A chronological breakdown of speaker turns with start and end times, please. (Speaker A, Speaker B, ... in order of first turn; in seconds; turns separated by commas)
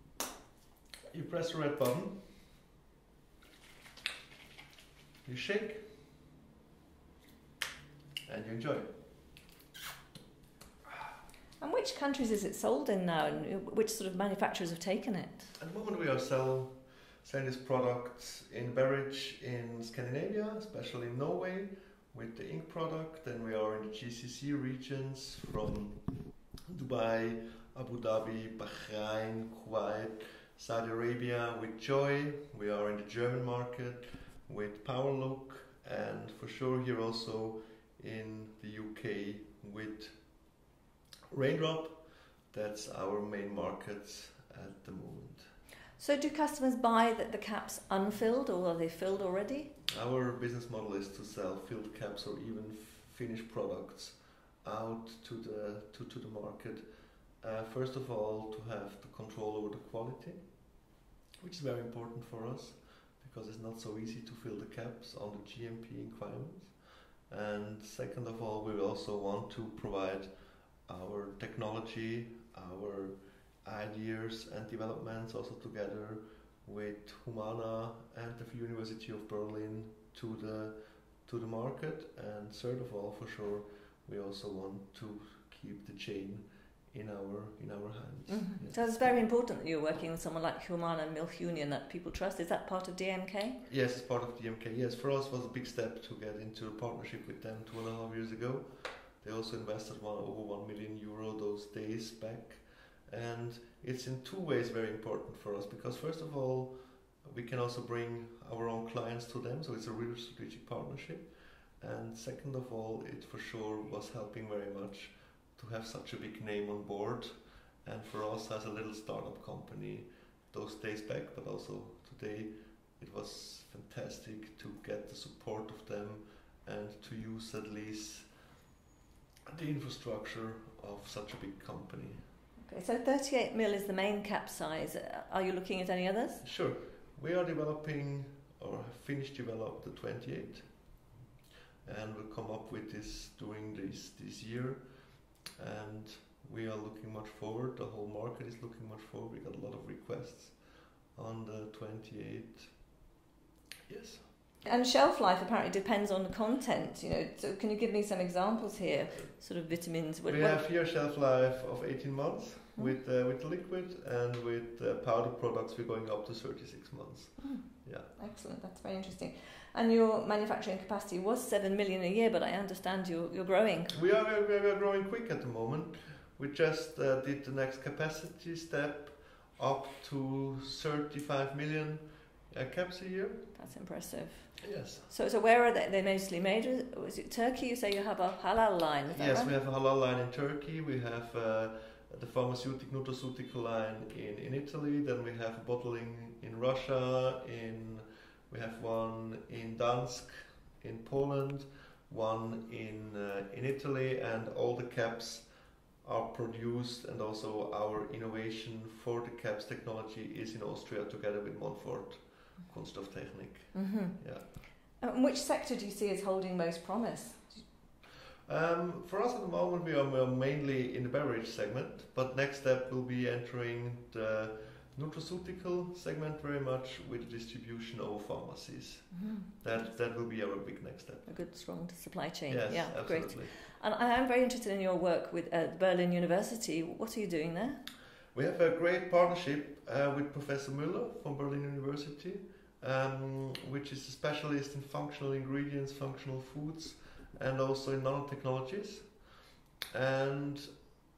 Speaker A: 1.1-2.3, Speaker A: 5.2-5.8, Speaker A: 8.3-8.9, Speaker B: 11.6-15.6, Speaker A: 15.6-40.4, Speaker A: 41.3-45.5, Speaker B: 46.0-49.8, Speaker A: 49.9-60.8, Speaker A: 61.4-89.2, Speaker B: 88.3-93.6, Speaker A: 93.7-128.5, Speaker A: 129.5-132.3, Speaker B: 132.6-136.4, Speaker A: 136.4-141.1, Speaker A: 141.8-152.8, Speaker A: 153.9-154.3, Speaker B: 154.6-160.7, Speaker A: 159.7-168.1, Speaker B: 167.4-174.0, Speaker A: 173.9-183.7, Speaker B: 183.6-189.5, Speaker A: 184.6-185.1, Speaker A: 189.1-214.5, Speaker B: 213.7-217.7, Speaker A: 218.5-231.9, Speaker B: 229.1-229.9, Speaker B: 231.3-237.9, Speaker A: 232.5-233.6, Speaker A: 238.3-250.8